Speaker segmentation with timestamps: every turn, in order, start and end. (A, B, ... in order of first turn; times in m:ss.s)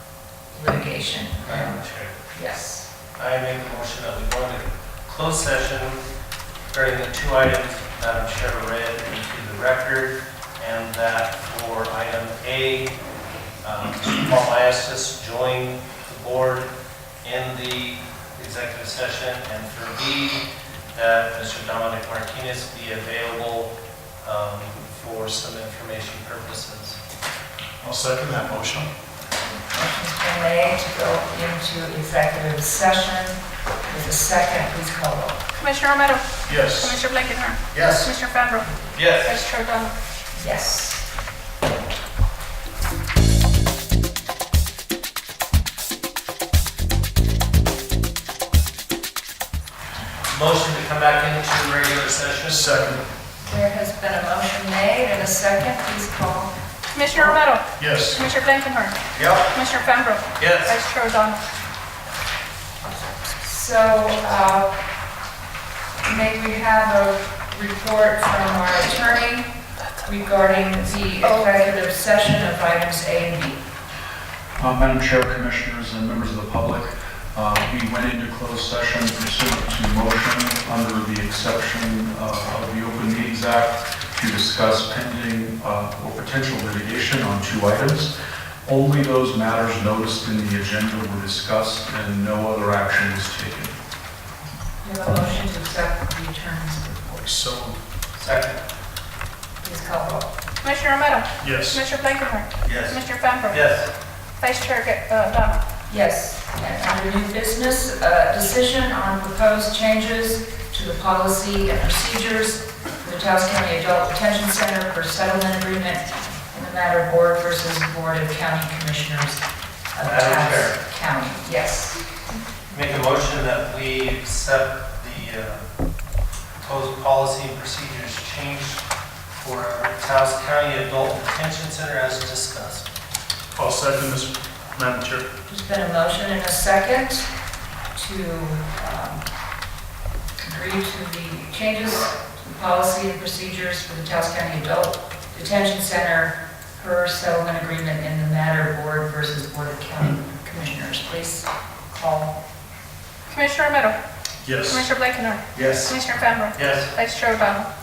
0:00.5-0:02.8 A
0:01.4-0:02.1 B
0:03.2-0:06.0 B
0:06.7-0:12.9 B
0:13.6-0:16.7 B
0:17.2-0:27.0 B
0:27.8-0:28.9 C
0:29.7-0:35.4 A
0:35.6-0:39.9 D
0:36.4-0:37.0 C
0:37.7-0:38.0 C
0:38.9-0:39.4 B
0:40.3-0:41.0 A
0:50.2-0:52.7 B
0:52.4-0:53.0 C
0:53.4-0:56.5 A
0:56.9-1:01.4 D
0:57.1-0:57.4 A
0:57.8-0:58.2 C
0:59.1-0:59.5 B
1:00.4-1:00.8 B
1:03.4-1:04.7 A
1:06.0-1:13.6 A
1:14.6-1:28.1 E
1:28.6-1:33.7 E
1:34.8-1:37.3 A
1:37.2-1:37.8 C
1:38.1-1:38.6 B
1:39.6-1:40.3 A
1:40.6-1:43.6 D
1:41.4-1:41.8 C
1:42.6-1:43.9 B
1:44.4-1:45.6 D
1:45.9-2:02.0 A
2:00.0-2:00.8 B
2:02.7-2:05.6 B
2:06.6-2:08.8 B
2:09.4-2:12.9 B
2:13.6-2:15.3 C
2:15.5-2:17.4 A
2:17.9-2:19.2 A
2:20.4-2:32.4 A
2:33.3-2:34.0 D
2:34.4-2:34.9 C
2:34.7-2:37.7 D
2:35.5-2:36.0 B
2:36.5-2:36.9 B